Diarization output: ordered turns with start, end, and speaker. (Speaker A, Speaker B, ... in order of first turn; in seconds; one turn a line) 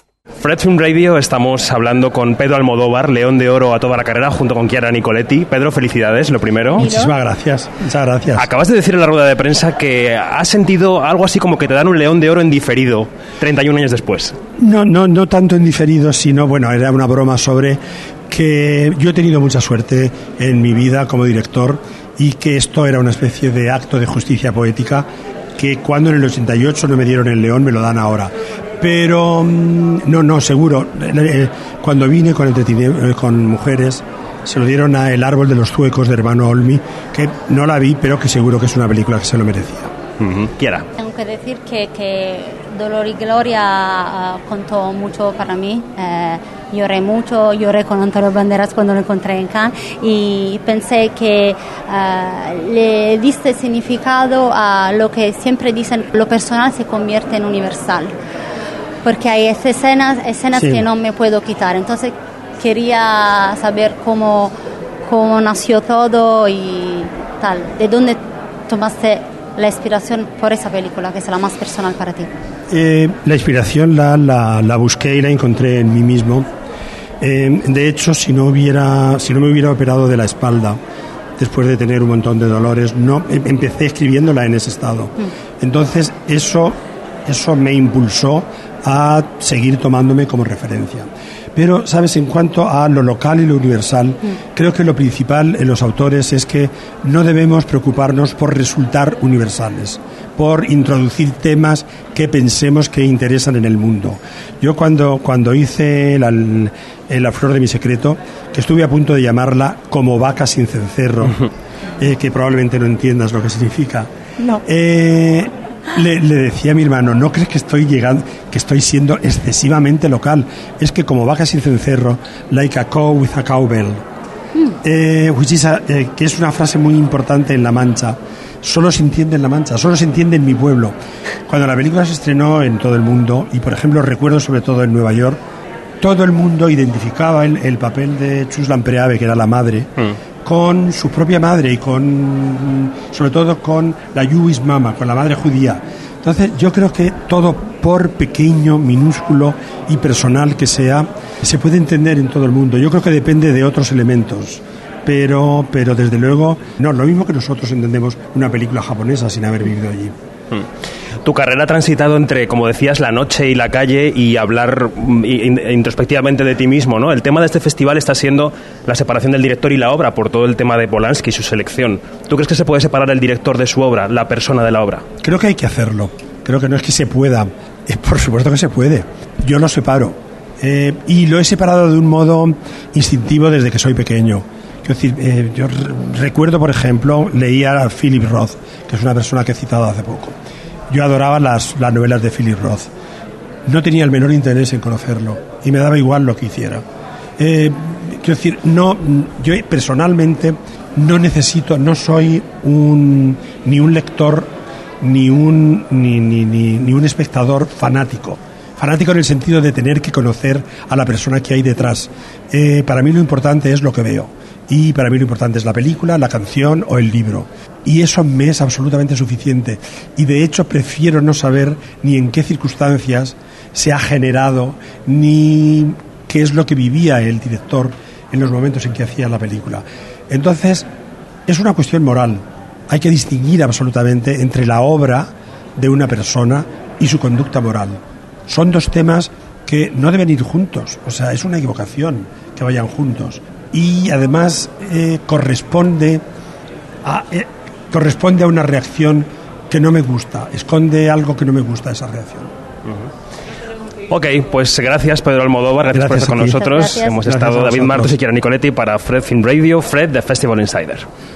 Speaker A: 0.4-6.9
Speaker B: 6.8-8.5
Speaker C: 6.8-7.1
Speaker A: 8.4-14.4
Speaker B: 14.6-39.9
Speaker A: 40.2-40.9
Speaker C: 41.0-58.1
Speaker C: 59.0-72.3
Speaker B: 60.5-60.9
Speaker B: 72.7-76.5
Speaker B: 77.2-80.8
Speaker B: 81.4-111.4
Speaker B: 112.0-114.1
Speaker B: 114.6-124.0
Speaker B: 124.8-130.9
Speaker B: 131.5-135.4
Speaker B: 136.0-139.9
Speaker B: 140.4-160.2
Speaker A: 161.2-175.0
Speaker B: 175.2-190.4
Speaker B: 190.9-192.9
Speaker B: 193.7-196.8
Speaker B: 197.4-230.9
Speaker B: 231.5-246.2
Speaker B: 247.0-252.5
Speaker A: 254.1-261.1
Speaker B: 255.9-258.1
Speaker C: 256.6-257.2